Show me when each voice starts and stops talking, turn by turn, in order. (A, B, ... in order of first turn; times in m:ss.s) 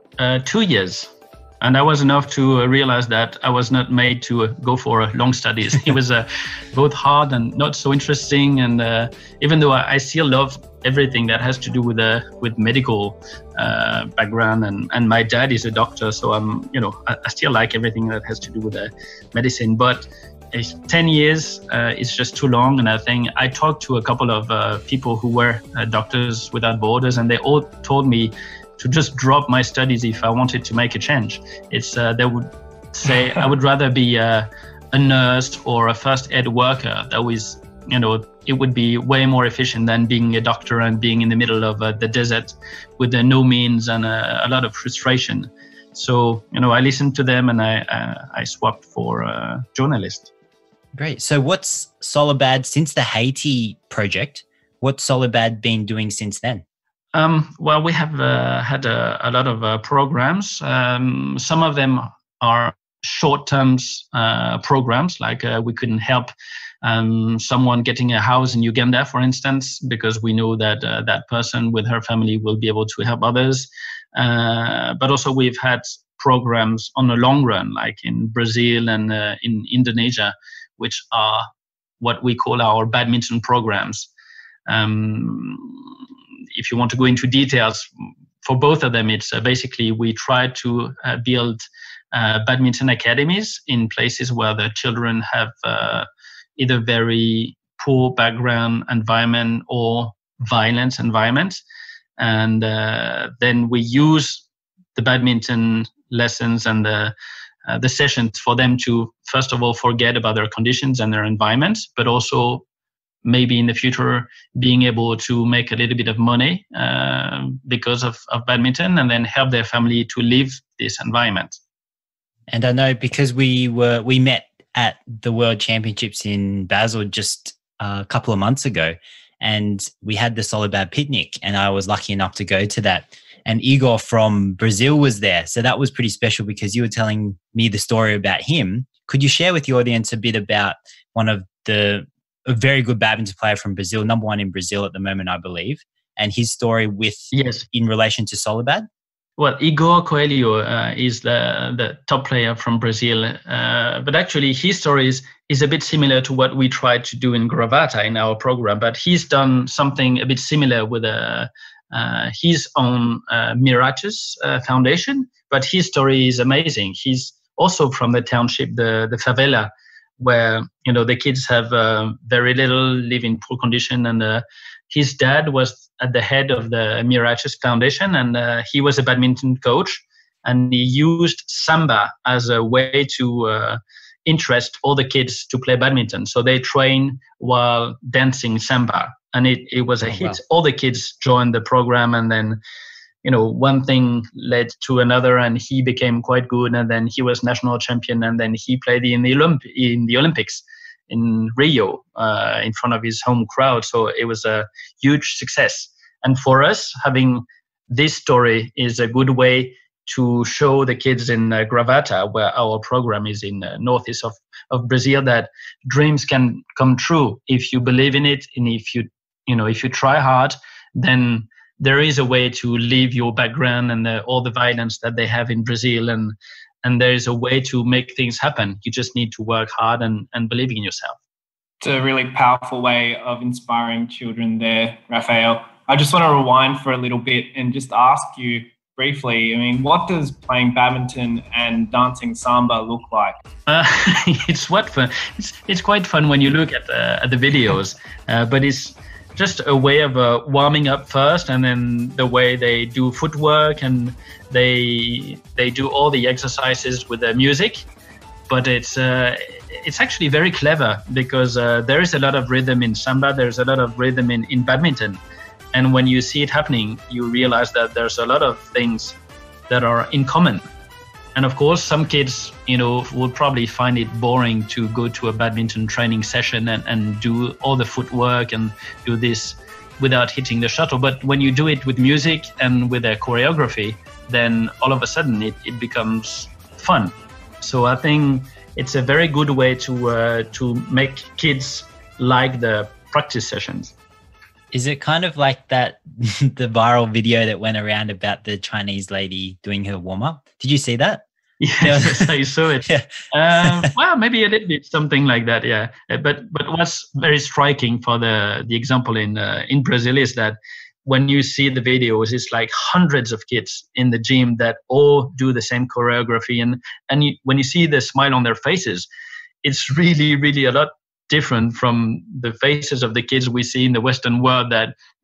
0:00.2-0:50.3 A
0:50.9-0:56.6 B
0:57.1-1:06.3 A
1:06.8-1:21.4 A
1:22.0-1:24.1 A
1:24.7-1:25.8 A
1:26.5-1:27.9 A
1:28.4-1:41.6 A
1:42.2-1:47.1 A
1:47.7-1:52.6 A
1:53.2-2:01.6 A
2:02.5-2:28.9 B
2:27.3-2:27.6 A
2:29.4-3:12.6 A
3:10.0-3:10.4 B
3:13.2-3:51.2 A
3:51.8-4:03.4 C
4:03.7-4:17.8 A
4:18.5-4:25.2 A
4:25.7-4:29.2 A
4:29.7-4:30.6 A
4:31.3-4:53.9 A
4:54.7-5:01.2 B
5:01.6-5:19.1 A
5:01.8-5:03.9 B
5:19.6-5:24.9 A